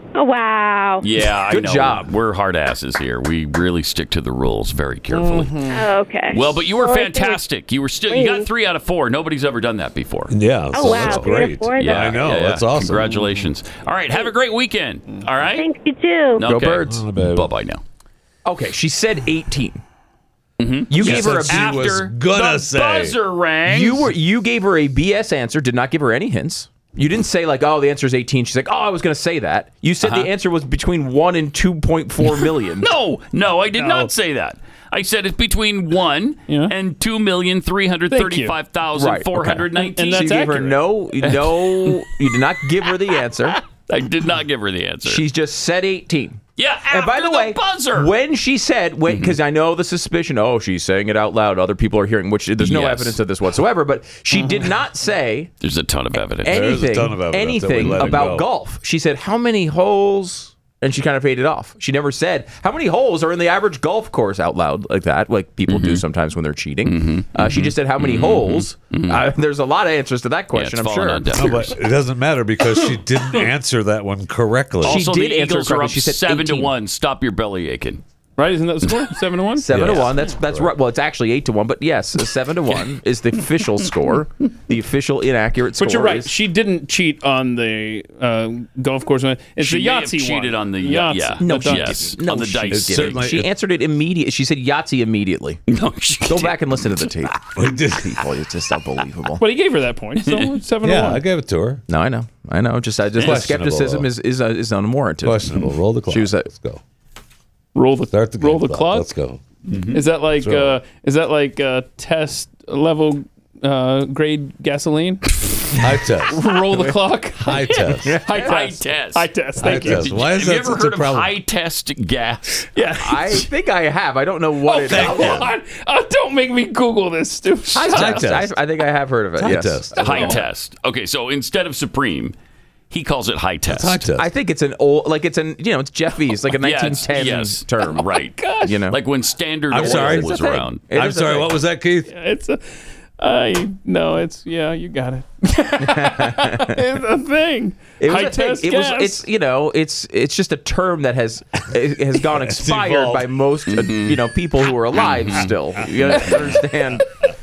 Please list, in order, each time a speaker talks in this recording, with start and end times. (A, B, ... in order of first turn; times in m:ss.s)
0:00.2-0:01.0 A
0:01.0-0:05.6 B
0:01.5-0:02.1 C
0:05.1-0:05.8 D
0:05.7-0:07.4 A
0:06.3-0:15.7 B
0:08.1-0:08.5 A
0:10.3-0:13.1 E
0:10.7-0:12.2 A
0:13.0-0:13.5 D
0:15.6-0:16.4 A
0:16.4-0:17.8 B
0:16.4-0:17.0 C
0:16.9-0:17.5 E
0:18.4-0:19.8 C
0:20.6-0:24.1 B
0:20.9-0:21.9 C
0:21.0-0:23.2 E
0:23.7-0:32.9 C
0:30.0-0:30.3 B
0:32.2-0:42.0 B
0:36.5-0:36.7 D
0:38.1-0:38.6 D
0:39.0-0:43.6 C
0:39.8-0:40.8 D
0:43.7-0:45.2 B
0:45.0-0:55.5 C
0:46.6-0:48.1 B
0:49.1-0:49.4 B
0:52.6-0:53.2 B
0:55.6-0:56.8 B
0:56.2-1:11.6 C
0:56.5-0:58.5 E
1:05.7-1:06.0 B
1:06.8-1:09.3 B
1:10.5-1:11.8 B
1:11.3-1:15.0 E
1:14.8-1:16.7 C
1:14.8-1:18.0 B
1:18.4-1:19.7 D
1:19.6-1:26.3 C
1:19.7-1:20.8 E
1:25.8-1:32.1 D
1:29.6-1:33.3 B
1:31.4-1:35.6 C
1:32.7-1:33.5 E
1:35.7-1:37.3 B
1:36.3-1:37.4 C
1:37.6-1:38.2 E
1:38.1-1:39.4 C
1:39.4-1:41.2 D
1:40.8-1:41.8 E
1:41.9-1:46.5 C
1:43.2-1:43.5 B
1:43.2-1:44.1 E
1:45.2-1:46.8 E
1:47.8-1:49.1 D
1:48.1-1:49.4 E
1:49.7-1:50.0 B
1:49.9-1:55.2 D
1:50.4-1:50.8 E
1:55.8-1:56.4 E
1:56.3-2:00.2 D
1:57.4-1:58.2 E
1:58.0-1:58.6 C
1:58.4-2:03.5 B
1:59.6-2:01.3 E
2:03.0-2:05.4 C
2:04.7-2:08.3 D
2:04.8-2:05.4 E
2:05.0-2:05.4 B
2:07.7-2:10.3 C
2:07.9-2:08.5 E
2:09.4-2:10.3 E
2:10.0-2:12.4 B
2:10.0-2:10.4 D
2:12.9-2:14.1 B
2:13.7-2:14.3 E
2:14.2-2:18.1 C
2:16.6-2:20.9 B
2:18.2-2:18.8 D
2:18.6-2:19.0 C
2:19.7-2:20.4 E
2:19.7-2:21.5 C
2:20.9-2:22.1 E
2:22.1-2:29.2 D
2:25.8-2:26.8 C
2:28.0-2:37.0 C
2:32.3-2:33.3 E
2:33.7-2:34.2 B
2:34.9-2:35.5 B
2:36.1-2:36.6 B
2:36.2-2:36.5 E